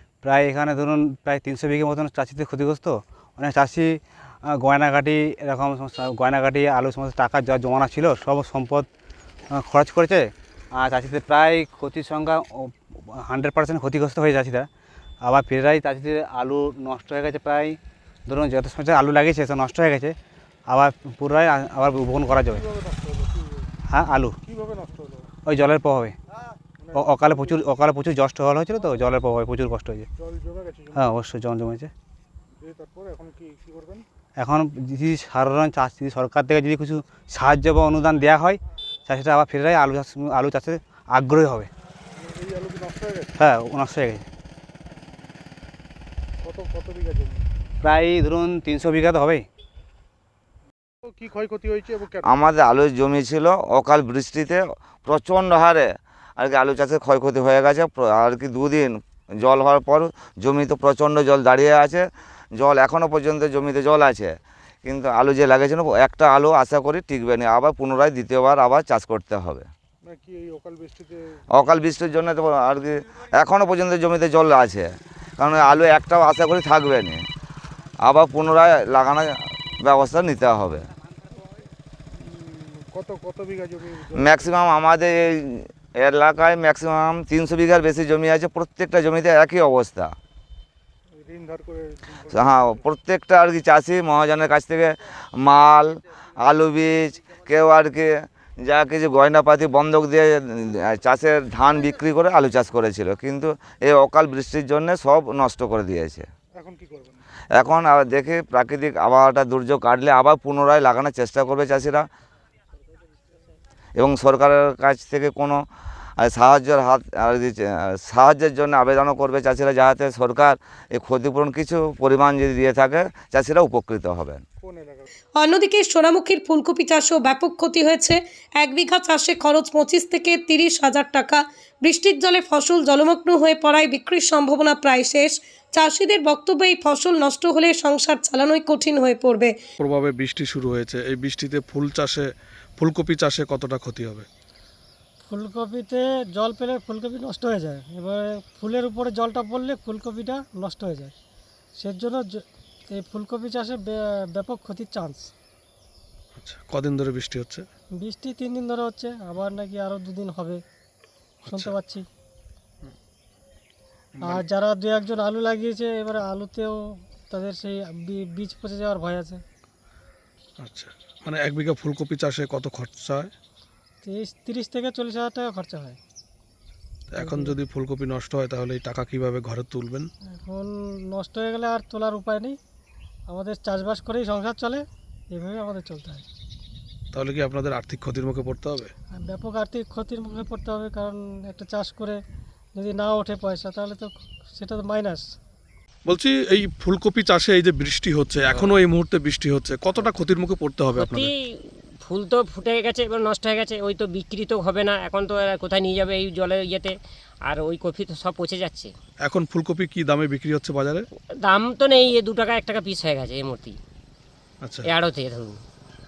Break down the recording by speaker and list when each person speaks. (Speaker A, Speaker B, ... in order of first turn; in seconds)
Speaker A: 0.2-8.9, 9.5-14.7, 15.2-20.1, 20.7-22.6, 23.9-24.4, 25.4-26.1, 26.9-30.1, 30.9-31.9, 34.4-41.7, 43.4-44.2, 47.8-49.5
Speaker B: 22.7-23.7, 24.4-25.3, 26.8-27.2, 30.2-30.9, 32.6-34.0, 42.2-43.3, 46.4-47.4, 51.1-52.2, 70.0-71.2, 82.2-84.4, 91.2-92.4, 106.6-107.2, 124.6-125.1
Speaker C: 52.2-62.0, 62.5-69.7, 71.5-77.2, 78.0-80.8, 84.1-90.1, 92.3-106.3, 107.5-112.0, 114.0-115.6, 116.2-124.4
Speaker D: 125.4-139.6
Speaker E: 139.8-144.3, 156.3-157.7, 161.4-161.7, 164.2-164.4, 170.6-173.3, 177.1-180.1, 187.1-188.9, 196.1-201.3, 209.2-211.1, 214.6-214.9
Speaker F: 145.2-151.1, 151.8-155.3, 158.0-160.6, 161.4-162.0, 164.2-169.4, 174.0-176.0, 177.2-177.5, 180.3-182.6, 183.3-186.2, 189.2-192.2, 192.7-195.3
Speaker G: 198.5-198.8, 200.9-201.4, 202.0-206.9, 207.4-208.9, 211.4-213.8, 214.8-215.6